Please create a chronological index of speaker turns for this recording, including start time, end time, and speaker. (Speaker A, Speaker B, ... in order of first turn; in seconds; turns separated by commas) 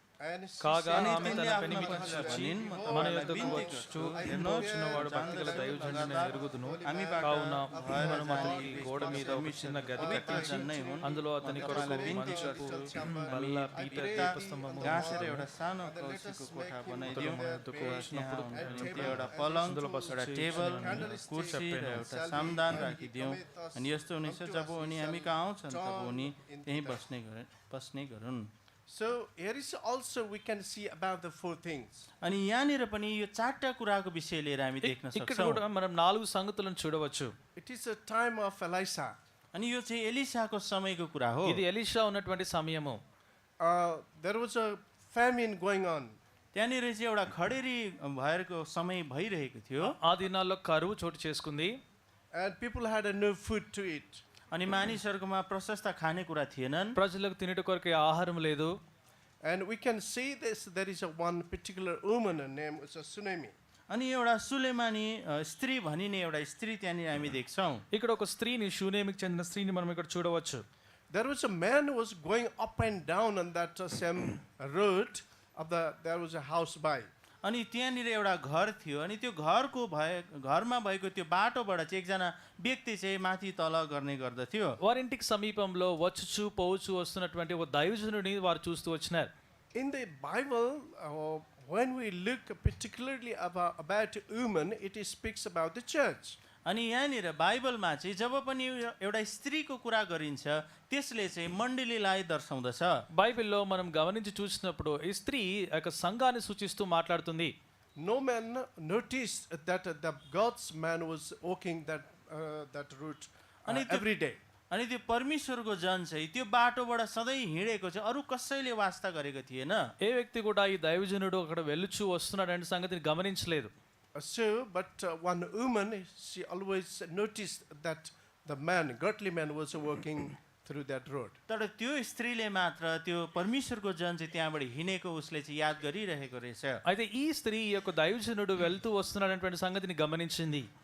Speaker A: 0.2-27.0, Speaker B: 0.6-15.4, Speaker C: 0.9-28.5, Speaker B: 17.1-22.1, Speaker A: 28.9-32.1, Speaker C: 32.2-35.6, Speaker B: 34.8-37.3, Speaker A: 37.5-39.1, Speaker C: 39.5-41.6, Speaker B: 41.4-43.0, Speaker A: 43.6-46.2, Speaker C: 46.5-50.0, Speaker B: 49.8-51.8, Speaker A: 52.3-54.2, Speaker C: 54.5-57.0, Speaker B: 57.0-58.7, Speaker A: 59.4-63.5, Speaker C: 63.9-67.8, Speaker B: 67.9-70.6, Speaker A: 71.1-77.1, Speaker C: 77.4-84.8, Speaker B: 84.8-89.3, Speaker A: 89.7-96.4, Speaker C: 96.7-102.9, Speaker B: 103.1-107.5, Speaker A: 108.0-114.4, Speaker C: 113.7-114.0, Speaker C: 114.7-119.8, Speaker B: 120.0-123.7, Speaker A: 124.1-131.4, Speaker C: 131.5-136.8, Speaker B: 136.8-140.7